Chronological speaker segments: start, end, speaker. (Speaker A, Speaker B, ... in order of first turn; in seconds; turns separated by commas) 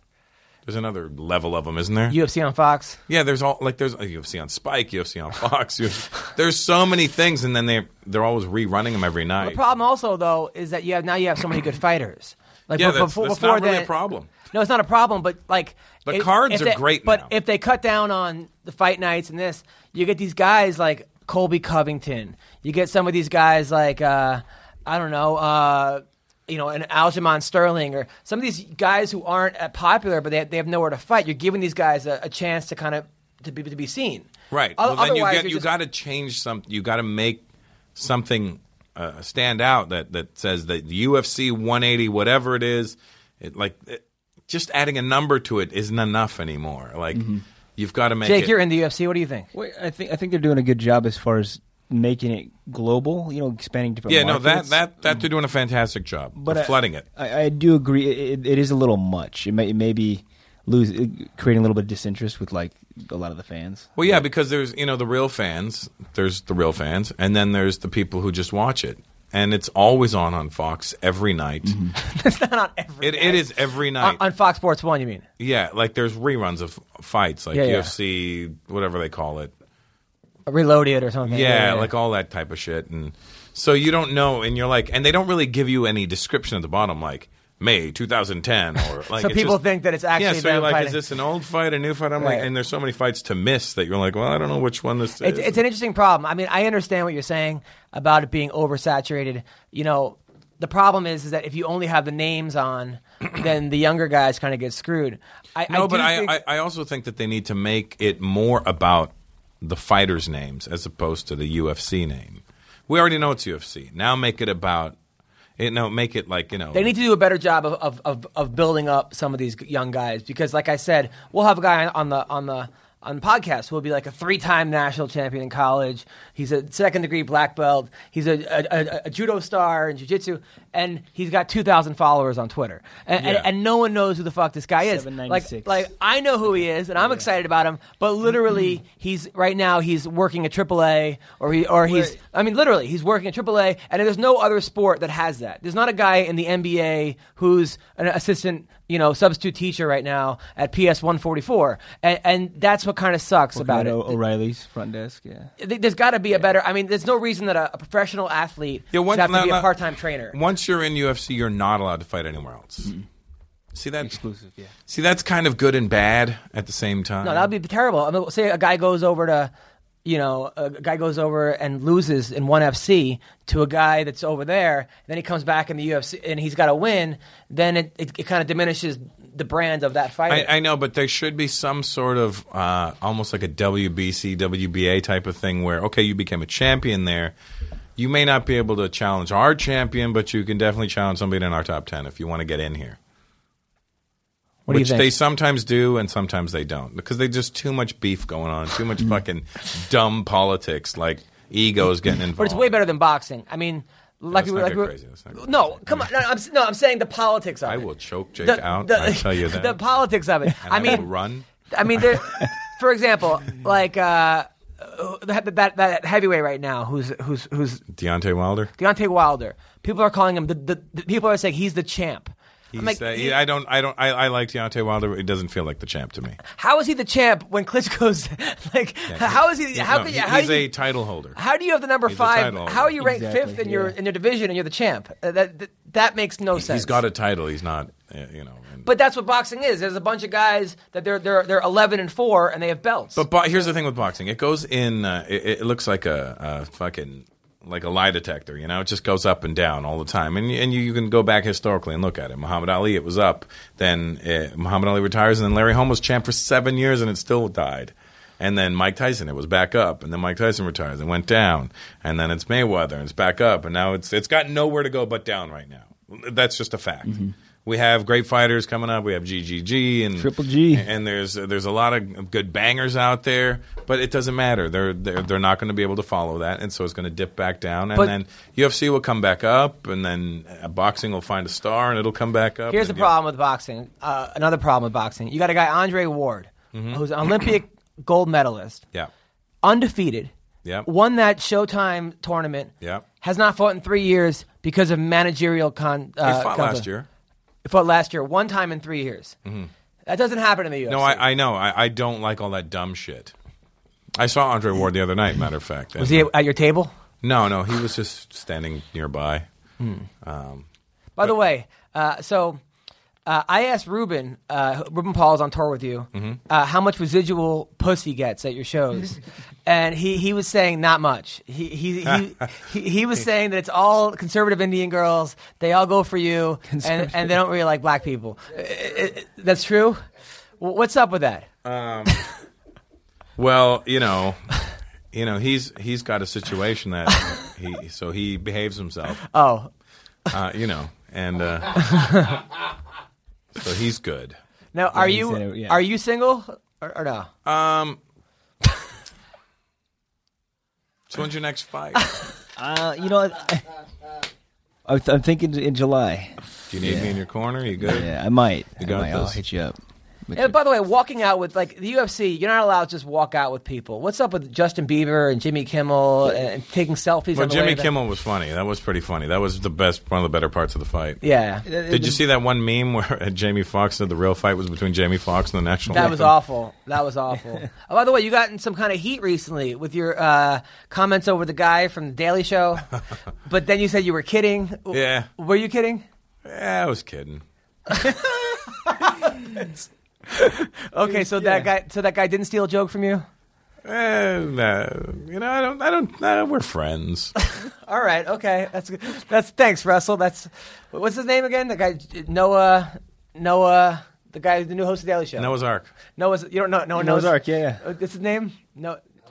Speaker A: 0.7-2.2, Speaker B: 2.1-3.0, Speaker A: 3.1-9.6, Speaker B: 9.4-13.9, Speaker A: 12.7-14.3, Speaker B: 14.5-35.7, Speaker A: 16.1-17.3, Speaker A: 34.5-37.5, Speaker A: 38.0-48.6, Speaker C: 47.1-47.4, Speaker B: 48.2-49.5, Speaker C: 49.5-55.1, Speaker A: 54.1-57.0, Speaker C: 56.4-64.2, Speaker A: 64.0-71.8, Speaker C: 71.7-71.9, Speaker B: 72.0-75.3, Speaker A: 73.0-74.2, Speaker A: 75.4-79.5, Speaker B: 77.5-77.9, Speaker B: 80.5-81.9, Speaker A: 81.3-89.6, Speaker B: 89.1-91.0, Speaker A: 90.1-95.6, Speaker B: 92.2-92.5, Speaker B: 95.2-106.4, Speaker A: 105.7-115.0, Speaker A: 115.6-116.9, Speaker B: 116.7-154.2, Speaker A: 133.2-133.5, Speaker C: 134.8-135.9, Speaker C: 137.0-137.2, Speaker C: 141.9-142.2, Speaker C: 153.5-155.5, Speaker B: 155.6-160.4, Speaker A: 158.9-159.7, Speaker A: 160.3-162.9, Speaker A: 163.7-164.2, Speaker C: 164.0-164.7, Speaker A: 164.9-167.5, Speaker B: 167.2-169.5, Speaker B: 170.1-180.5, Speaker A: 180.3-187.3, Speaker A: 188.0-193.0, Speaker B: 194.7-195.1, Speaker A: 194.7-202.8, Speaker B: 202.4-207.9, Speaker A: 204.3-206.1, Speaker A: 207.7-209.8, Speaker B: 208.4-211.1, Speaker A: 210.6-211.5, Speaker B: 211.7-217.8, Speaker A: 217.9-218.7, Speaker B: 218.8-223.4, Speaker A: 222.7-226.4, Speaker B: 226.5-230.7, Speaker A: 229.1-231.4, Speaker B: 231.3-237.0, Speaker A: 232.1-232.9, Speaker C: 233.0-234.0, Speaker A: 236.6-238.9, Speaker B: 238.8-243.3, Speaker A: 243.2-283.1, Speaker C: 267.1-267.3, Speaker C: 270.2-270.9, Speaker B: 282.7-288.8, Speaker A: 286.7-287.0, Speaker B: 289.6-290.3, Speaker B: 290.9-296.9, Speaker A: 296.2-297.1, Speaker B: 297.6-299.4, Speaker A: 299.4-299.7, Speaker B: 300.1-301.2, Speaker A: 300.9-303.3, Speaker A: 304.2-306.3, Speaker B: 306.0-306.9, Speaker A: 307.2-309.5, Speaker B: 309.8-310.1, Speaker A: 310.2-310.7, Speaker B: 311.2-312.6, Speaker B: 313.3-330.0, Speaker A: 316.1-316.4, Speaker C: 326.7-327.4, Speaker B: 330.6-331.5, Speaker A: 331.6-332.2, Speaker A: 333.4-334.4, Speaker A: 335.1-339.2, Speaker B: 339.2-339.7, Speaker A: 340.3-342.1, Speaker B: 341.8-342.4, Speaker A: 343.6-344.4, Speaker B: 344.7-347.3, Speaker C: 344.9-345.8, Speaker A: 347.4-348.0, Speaker A: 351.1-352.1, Speaker C: 352.6-353.7, Speaker C: 354.9-357.2, Speaker A: 356.7-358.1, Speaker C: 357.8-360.5, Speaker A: 358.8-359.4, Speaker B: 360.4-367.9, Speaker A: 367.3-371.2, Speaker B: 371.2-371.7, Speaker C: 371.7-372.2, Speaker A: 371.8-376.3, Speaker B: 375.9-382.9, Speaker B: 383.5-386.1, Speaker A: 384.9-385.3, Speaker A: 386.4-387.4, Speaker B: 387.9-389.7, Speaker B: 390.3-393.2, Speaker C: 391.1-391.7, Speaker A: 393.8-397.3, Speaker B: 397.6-405.6, Speaker A: 405.4-405.9, Speaker B: 406.2-409.0, Speaker C: 406.9-407.8